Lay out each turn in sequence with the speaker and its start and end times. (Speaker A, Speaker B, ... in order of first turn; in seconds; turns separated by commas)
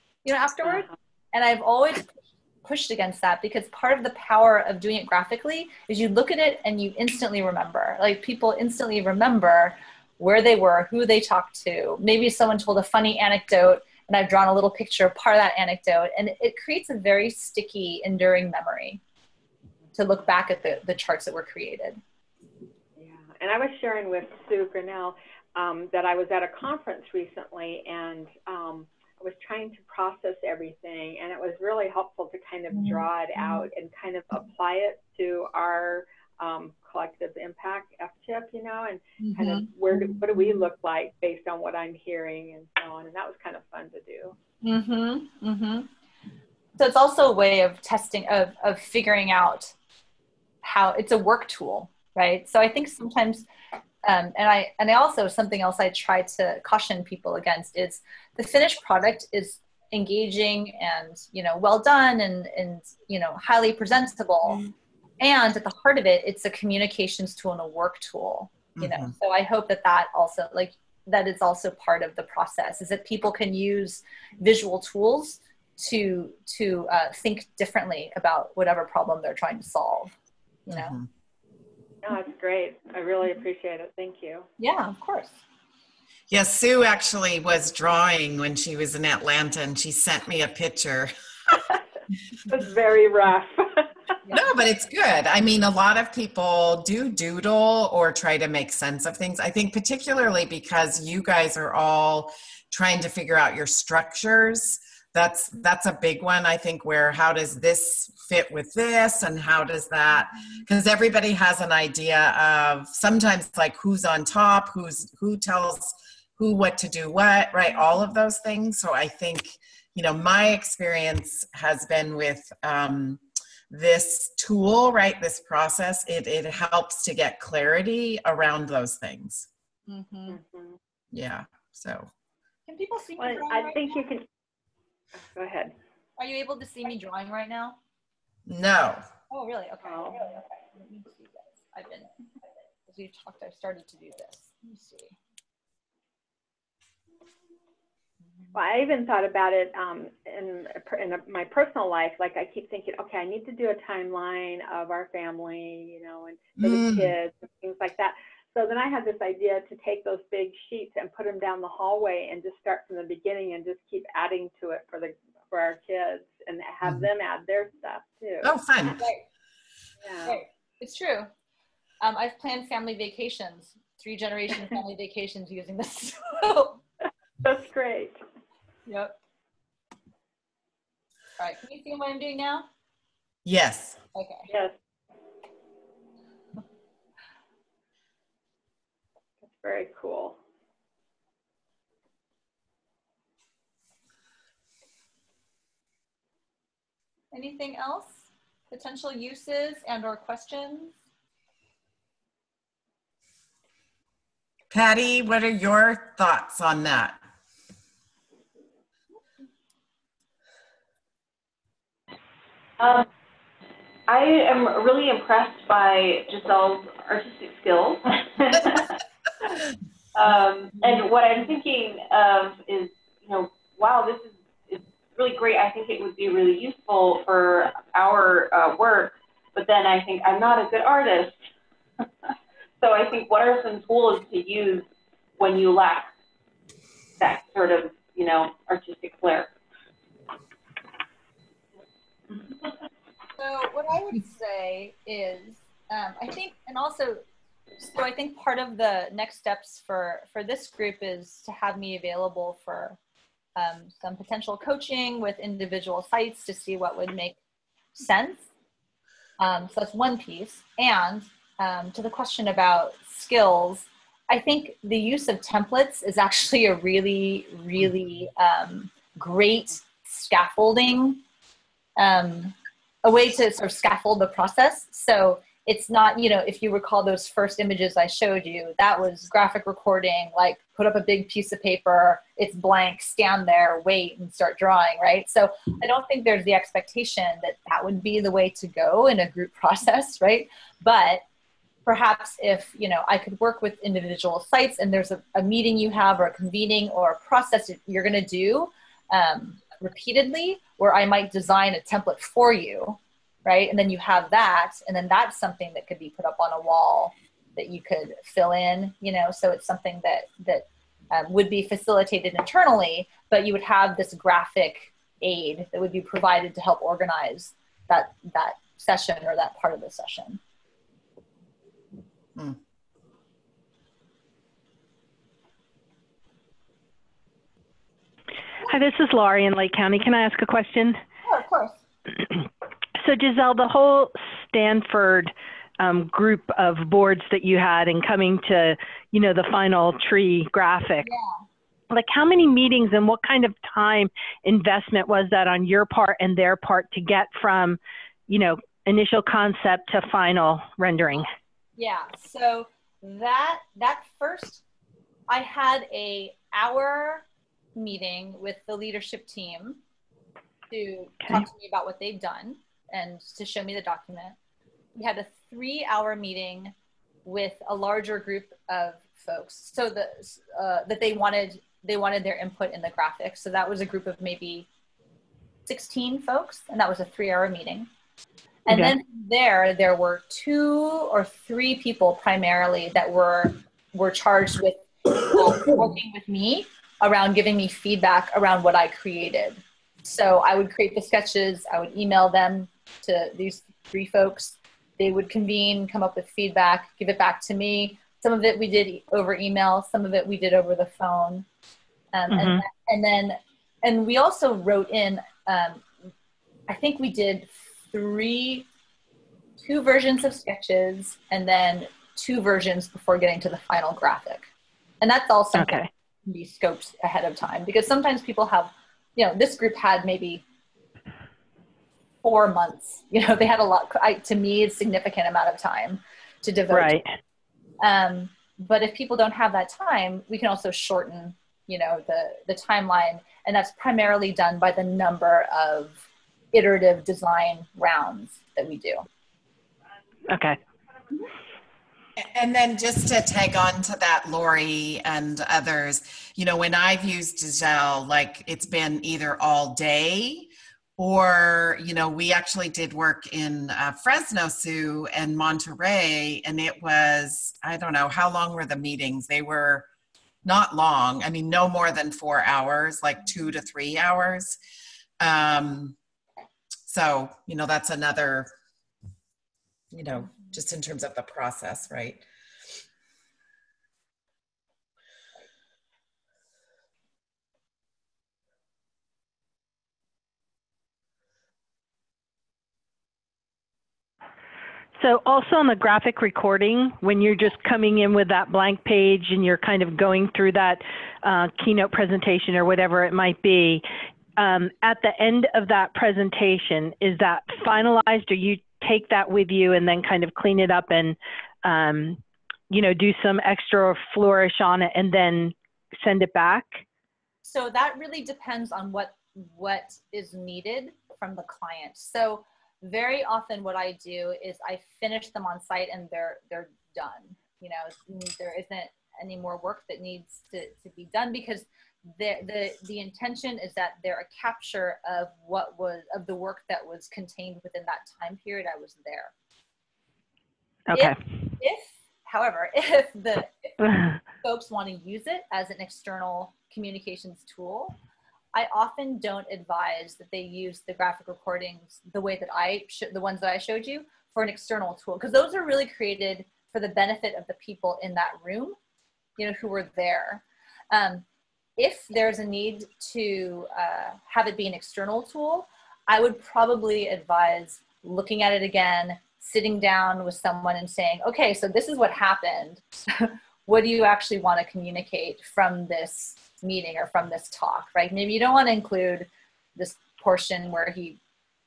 Speaker A: 0.2-19.0, Speaker B: 0.6-0.9, Speaker A: 19.9-22.0, Speaker B: 23.0-44.4, Speaker A: 32.8-33.6, Speaker A: 39.2-40.6, Speaker A: 44.6-45.9, Speaker A: 46.8-49.7, Speaker A: 50.6-53.5, Speaker A: 54.0-64.7, Speaker A: 65.2-80.1, Speaker C: 68.8-69.1, Speaker C: 80.7-81.1, Speaker B: 82.0-84.5, Speaker A: 84.6-85.4, Speaker C: 86.3-91.1, Speaker B: 92.5-94.3, Speaker C: 94.3-129.5, Speaker A: 129.9-130.4, Speaker B: 130.3-130.8, Speaker C: 131.1-132.1, Speaker A: 132.7-134.1, Speaker B: 133.2-134.3, Speaker B: 135.2-135.8, Speaker A: 136.2-137.8, Speaker C: 138.5-139.0, Speaker A: 139.3-142.1, Speaker B: 139.8-140.4, Speaker A: 142.9-145.2, Speaker B: 148.5-168.6, Speaker C: 156.6-157.1, Speaker C: 168.4-169.0, Speaker A: 169.0-169.2, Speaker B: 170.0-170.4, Speaker A: 170.3-171.3, Speaker A: 172.0-176.8, Speaker B: 177.4-178.2, Speaker A: 178.9-179.2, Speaker A: 181.4-182.7, Speaker C: 183.4-184.0, Speaker A: 184.2-184.5, Speaker B: 184.5-184.8, Speaker B: 189.4-190.4, Speaker A: 197.3-198.2, Speaker A: 198.7-200.9, Speaker C: 204.7-207.2, Speaker D: 212.8-213.1, Speaker D: 214.1-218.9, Speaker D: 220.1-231.4, Speaker D: 232.8-234.9, Speaker D: 235.4-236.1, Speaker D: 237.2-239.5, Speaker A: 243.4-247.2, Speaker A: 247.8-253.0, Speaker A: 253.6-257.4, Speaker A: 258.0-258.5, Speaker A: 259.4-271.2, Speaker A: 272.0-291.2, Speaker A: 291.9-320.4, Speaker E: 328.7-331.0, Speaker A: 331.2-331.8, Speaker E: 333.0-341.1, Speaker A: 341.0-341.4, Speaker E: 341.9-351.3, Speaker A: 351.8-354.6, Speaker A: 355.3-357.2, Speaker A: 357.8-359.8, Speaker A: 360.7-364.4, Speaker A: 364.9-366.7, Speaker A: 367.2-374.7, Speaker A: 375.7-377.9, Speaker A: 378.7-401.5, Speaker E: 378.7-378.9, Speaker A: 402.1-405.9, Speaker E: 402.3-402.6, Speaker A: 406.7-408.7, Speaker A: 409.6-414.4, Speaker A: 415.0-420.4, Speaker E: 415.6-415.9, Speaker A: 422.2-426.9, Speaker E: 426.7-427.1, Speaker A: 427.8-436.0, Speaker A: 436.5-439.1, Speaker E: 440.3-440.6, Speaker C: 442.2-459.9, Speaker C: 460.4-464.6, Speaker C: 465.2-466.0, Speaker C: 466.9-468.5, Speaker C: 469.9-472.2, Speaker E: 485.0-493.8, Speaker E: 494.4-506.8, Speaker A: 507.4-529.3, Speaker E: 530.9-531.2, Speaker A: 530.9-533.8, Speaker E: 533.9-534.2, Speaker A: 534.4-538.0, Speaker A: 538.5-548.8, Speaker A: 549.4-551.2, Speaker A: 551.8-571.2